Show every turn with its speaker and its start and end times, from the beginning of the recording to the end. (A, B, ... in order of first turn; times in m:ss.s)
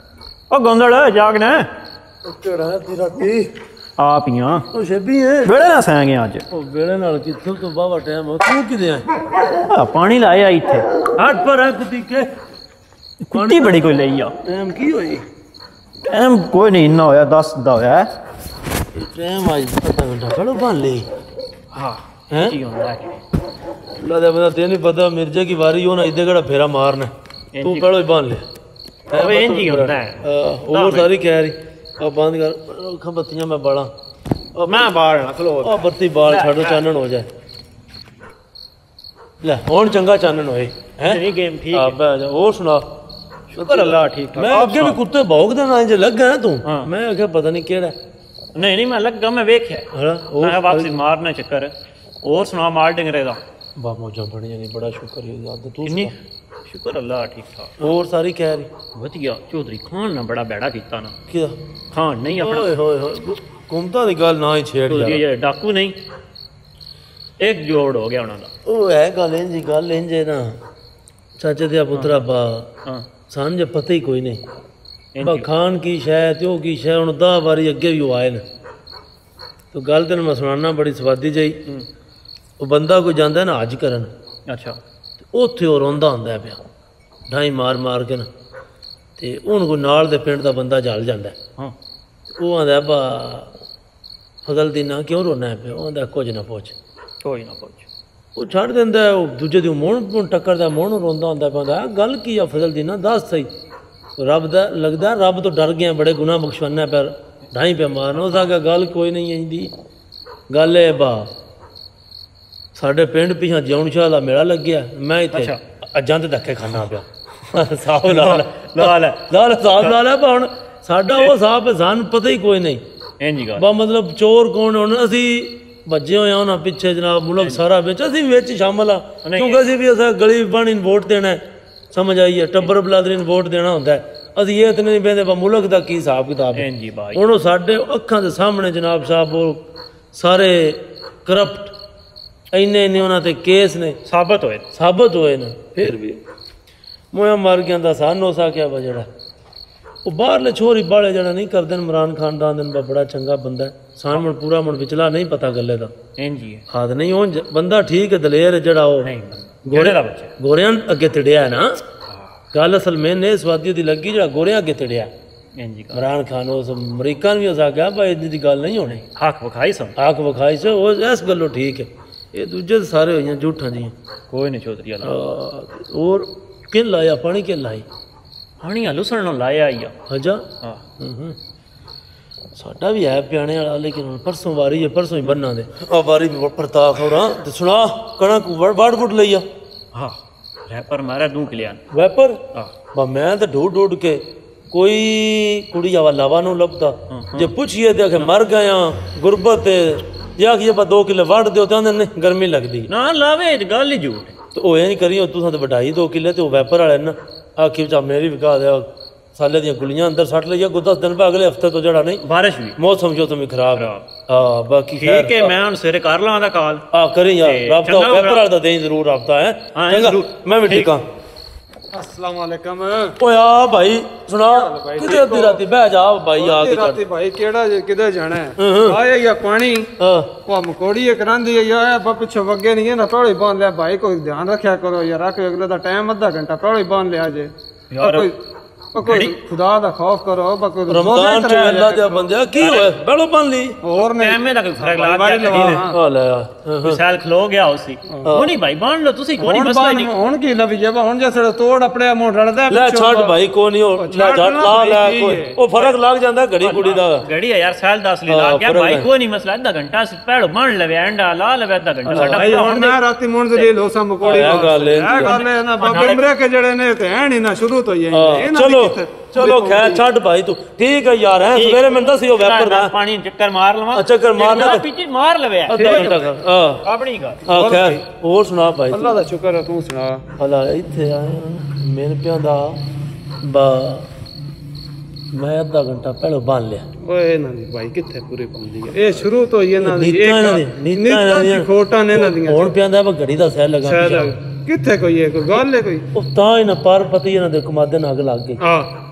0:00.5-0:01.7 A
0:02.2-0:03.5 B
0:04.0-0:04.6 A
0:04.7-0:05.5 B
0:05.4-0:06.4 A
0:06.5-0:09.1 B
0:09.5-0:10.9 A
0:11.1-0:12.3 B
0:13.2-0:14.3 A
0:13.3-0:13.9 B
0:14.4-0:15.2 B
0:16.0-0:18.1 A
0:18.9-0:21.1 B
0:21.7-0:23.2 A
0:22.3-0:22.6 B
0:24.0-0:28.4 B
0:27.5-0:27.9 A
0:29.1-0:33.9 B
0:29.1-0:31.1 A
0:34.6-0:34.9 B
0:34.6-0:36.8 A
0:35.6-0:37.3 B
0:39.4-0:42.8 B
0:41.0-0:42.0 A
0:43.5-0:45.0 A
0:43.6-0:47.9 B
0:46.6-0:46.9 A
0:48.5-0:49.9 A
0:49.9-0:51.0 B
0:50.4-0:53.4 A
0:53.8-0:56.1 B
0:55.8-0:56.1 A
0:56.6-0:57.7 A
0:57.8-0:58.7 B
0:58.9-1:01.2 A
1:01.3-1:01.6 B
1:01.9-1:02.7 A
1:02.2-1:05.2 B
1:04.9-1:06.0 A
1:07.4-1:08.5 A
1:08.6-1:10.6 B
1:11.4-1:12.7 B
1:13.3-1:14.4 B
1:15.1-1:15.5 A
1:15.2-1:18.4 B
1:19.7-1:21.6 B
1:22.6-1:24.1 B
1:24.5-1:24.8 A
1:25.3-1:26.6 B
1:27.3-1:28.3 B
1:29.2-1:31.4 B
1:32.4-1:33.6 B
1:34.4-1:36.7 B
1:37.2-1:37.9 A
1:38.4-1:43.5 B
1:44.2-1:49.7 B
1:50.5-1:51.3 B
1:52.7-2:02.8 B
1:55.3-1:55.6 A
1:57.8-1:59.9 A
2:03.2-2:03.6 A
2:03.6-2:19.6 B
2:09.2-2:09.6 A
2:16.5-2:17.2 A
2:20.1-2:21.7 B
2:22.5-2:24.0 B
2:24.0-2:24.6 A
2:24.7-2:26.2 B
2:27.1-2:29.1 B
2:30.0-2:35.9 B
2:36.2-2:36.6 A
2:36.7-2:39.1 B
2:39.0-2:40.3 A
2:39.6-2:41.8 B
2:42.5-2:45.1 B
2:45.6-2:46.0 A
2:45.9-2:49.0 B
2:48.9-2:49.9 A
2:50.0-2:53.9 B
2:54.3-2:55.2 A
2:55.0-2:57.8 B
2:58.6-2:59.9 A
3:00.1-3:00.4 B
3:01.0-3:01.4 B
3:02.6-3:09.4 B
3:09.9-3:11.8 A
3:11.9-3:12.4 B
3:12.9-3:22.9 B
3:17.1-3:17.5 A
3:22.9-3:24.4 A
3:24.5-3:32.2 B
3:32.2-3:32.8 A
3:32.8-3:35.5 B
3:33.7-3:34.0 A
3:34.9-3:36.8 A
3:36.9-3:41.0 B
3:37.4-3:38.4 A
3:39.7-3:40.9 A
3:41.9-3:43.2 C
3:43.2-3:47.0 B
3:44.5-3:45.6 C
3:46.4-3:49.9 C
3:48.6-3:49.0 B
3:50.0-3:50.3 B
3:50.4-3:58.4 C
3:57.9-3:58.3 A
3:58.9-4:02.3 C
3:59.0-3:59.3 A
4:00.9-4:03.8 B
4:02.5-4:02.9 A
4:03.8-4:06.0 C
4:04.0-4:05.9 A
4:05.5-4:07.0 B
4:06.8-4:10.1 A
4:08.2-4:08.5 B
4:09.4-4:13.4 C
4:12.7-4:17.2 B
4:14.0-4:15.6 C
4:16.6-4:23.0 A
4:18.3-4:19.1 B
4:22.0-4:30.0 C
4:22.1-4:22.8 B
4:24.2-4:26.2 A
4:24.3-4:25.4 B
4:28.1-4:32.9 B
4:31.5-4:36.2 A
4:33.9-4:34.8 B
4:35.7-4:36.2 C
4:35.7-4:36.8 B
4:36.8-4:37.4 A
4:37.4-4:39.2 B
4:37.5-4:38.0 C
4:38.9-4:40.2 C
4:40.4-4:42.8 B
4:43.4-4:44.1 B
4:45.3-4:46.9 B
4:47.0-4:52.7 C
4:49.8-4:54.3 B
4:53.8-4:56.1 C
4:56.1-4:58.6 B
4:58.6-4:58.9 C